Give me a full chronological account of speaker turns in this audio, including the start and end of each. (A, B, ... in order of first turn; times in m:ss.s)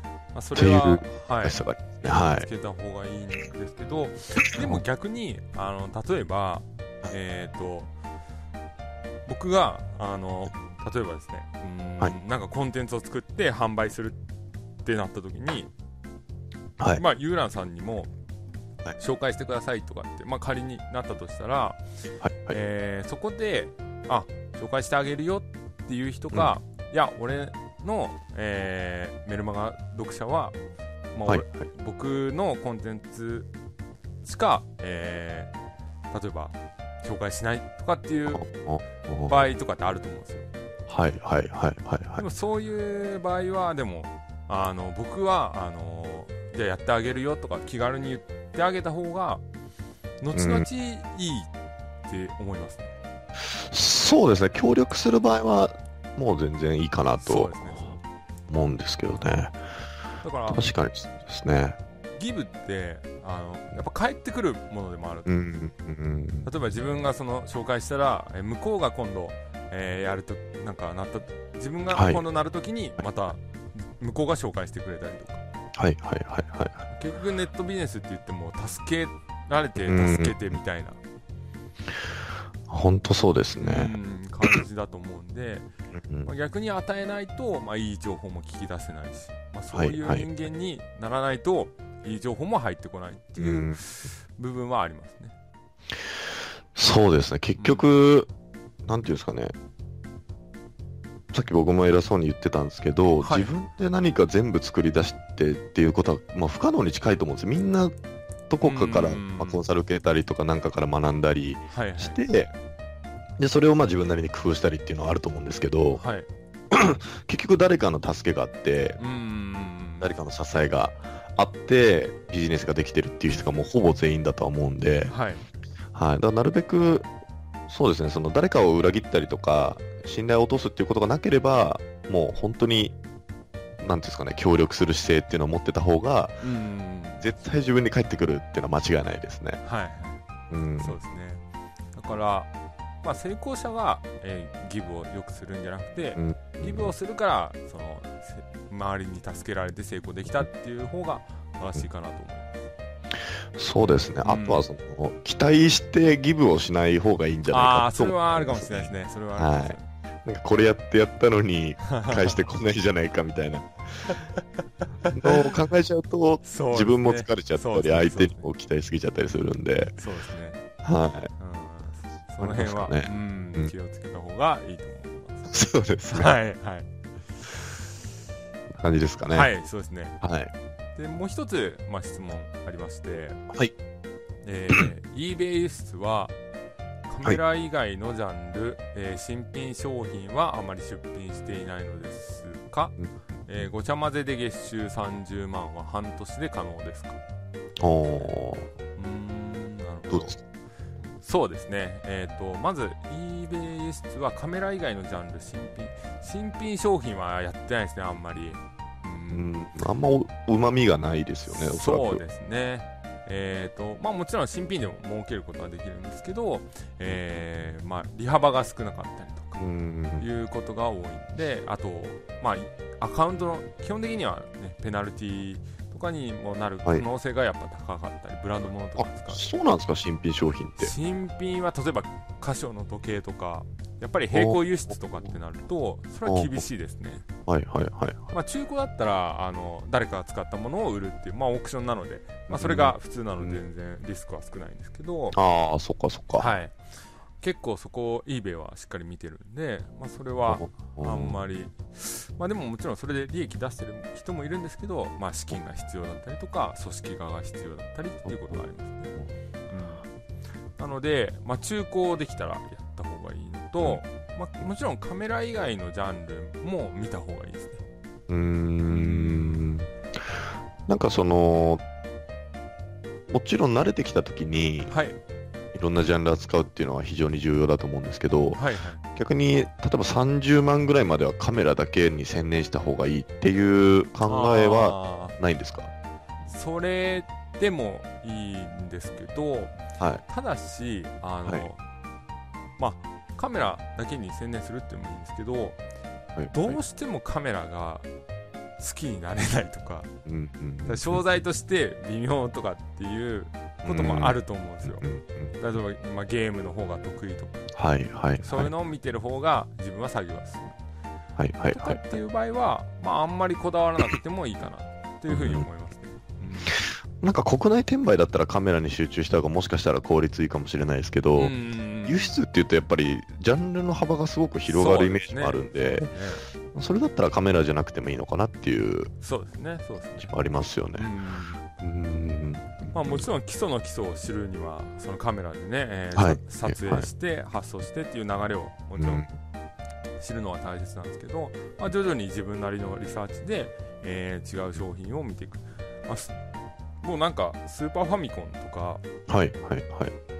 0:00.3-0:07.9 A
0:00.5-0:02.5 B
0:04.6-0:04.8 B
0:09.2-0:14.2 A
0:14.8-0:15.7 A
0:16.9-0:18.1 A
0:19.0-0:21.8 A
0:22.2-0:22.6 B
0:22.5-0:30.6 A
0:31.1-0:33.5 A
0:34.2-0:35.5 A
0:36.1-0:38.5 A
0:38.3-0:39.5 B
0:39.3-0:40.5 A
0:40.9-0:42.2 B
0:42.2-0:49.4 A
0:50.2-0:51.5 A
0:50.3-0:50.6 B
0:52.0-0:52.9 A
0:53.5-0:57.8 B
0:57.2-0:58.0 A
0:58.5-0:59.6 B
1:00.2-1:00.6 A
1:00.5-1:01.8 B
1:02.2-1:05.3 A
1:05.2-1:06.5 B
1:06.4-1:15.4 A
1:11.9-1:12.2 B
1:15.8-1:16.8 B
1:16.9-1:21.0 A
1:19.8-1:20.4 B
1:22.7-1:23.9 B
1:23.6-1:25.7 A
1:25.9-1:26.3 B
1:26.2-1:35.3 A
1:29.7-1:30.2 B
1:33.4-1:33.8 B
1:36.7-1:38.3 B
1:37.6-1:37.8 A
1:38.8-1:39.5 B
1:41.3-1:47.9 B
1:43.2-1:43.5 A
1:48.5-1:52.5 B
1:48.6-1:49.6 A
1:51.7-1:52.2 A
1:53.4-1:56.0 B
1:55.9-1:56.3 A
1:56.7-1:59.0 B
1:59.0-2:00.1 A
2:00.0-2:05.1 B
2:05.1-2:05.4 A
2:05.9-2:07.1 B
2:07.7-2:13.0 B
2:13.8-2:16.4 B
2:16.4-2:17.3 A
2:17.2-2:19.6 B
2:19.6-2:20.2 A
2:20.5-2:21.0 B
2:20.8-2:21.4 A
2:21.9-2:22.5 A
2:23.0-2:32.7 A
2:26.2-2:26.9 B
2:33.5-2:44.1 B
2:34.2-2:34.6 A
2:37.5-2:39.8 A
2:41.8-2:42.4 A
2:44.1-2:44.4 A
2:45.0-2:45.5 A
2:45.1-2:50.0 B
2:46.4-2:48.5 A
2:50.0-2:50.6 A
2:50.8-2:51.3 B
2:51.4-2:56.9 A
2:52.4-2:53.7 B
2:55.5-2:56.3 B
2:58.7-2:59.5 B
2:59.3-3:00.2 A
3:00.2-3:00.5 B
3:01.0-3:03.4 A
3:04.4-3:06.4 A
3:07.1-3:17.2 A
3:17.8-3:18.7 B
3:19.0-3:20.4 A
3:20.1-3:20.4 B
3:21.2-3:29.5 A
3:29.3-3:32.2 B
3:31.5-3:39.6 A
3:39.6-3:40.2 B
3:40.2-3:49.5 A
3:49.0-3:50.9 B
3:50.8-3:57.2 A
3:54.3-3:54.6 B
3:56.2-3:56.6 B
3:57.5-3:58.3 B
3:58.3-4:05.4 A
4:02.5-4:03.6 B
4:05.3-4:06.5 B
4:06.4-4:06.8 A
4:07.4-4:19.1 A
4:10.5-4:11.4 B
4:18.3-4:18.6 B
4:19.7-4:20.0 A
4:20.8-4:27.8 A
4:28.3-4:31.8 B
4:28.9-4:29.6 A
4:33.3-4:34.9 B
4:34.9-4:35.2 A
4:35.7-4:38.6 B
4:38.5-4:39.0 A
4:39.1-4:45.9 B
4:44.2-4:45.4 A
4:46.5-4:49.8 A
4:50.3-4:51.8 A
4:52.8-4:55.8 A
4:56.4-4:56.8 B
4:56.5-4:58.0 A
4:58.8-5:00.1 A
5:00.2-5:01.2 B
5:00.9-5:05.0 A
5:03.8-5:05.5 B
5:05.6-5:07.6 A
5:07.7-5:08.7 B
5:08.4-5:10.8 A
5:11.4-5:12.2 B
5:11.7-5:16.8 A
5:15.3-5:15.6 B
5:16.7-5:21.5 B
5:21.4-5:22.4 A
5:22.0-5:26.1 B
5:24.7-5:26.5 A
5:26.7-5:29.1 B
5:29.2-5:30.3 A
5:30.2-5:31.1 B
5:31.0-5:31.6 A
5:31.8-5:33.2 B
5:32.9-5:39.2 A
5:36.1-5:37.1 B
5:39.0-5:39.3 B
5:40.2-5:46.3 A
5:47.0-5:49.0 A
5:49.3-5:50.1 B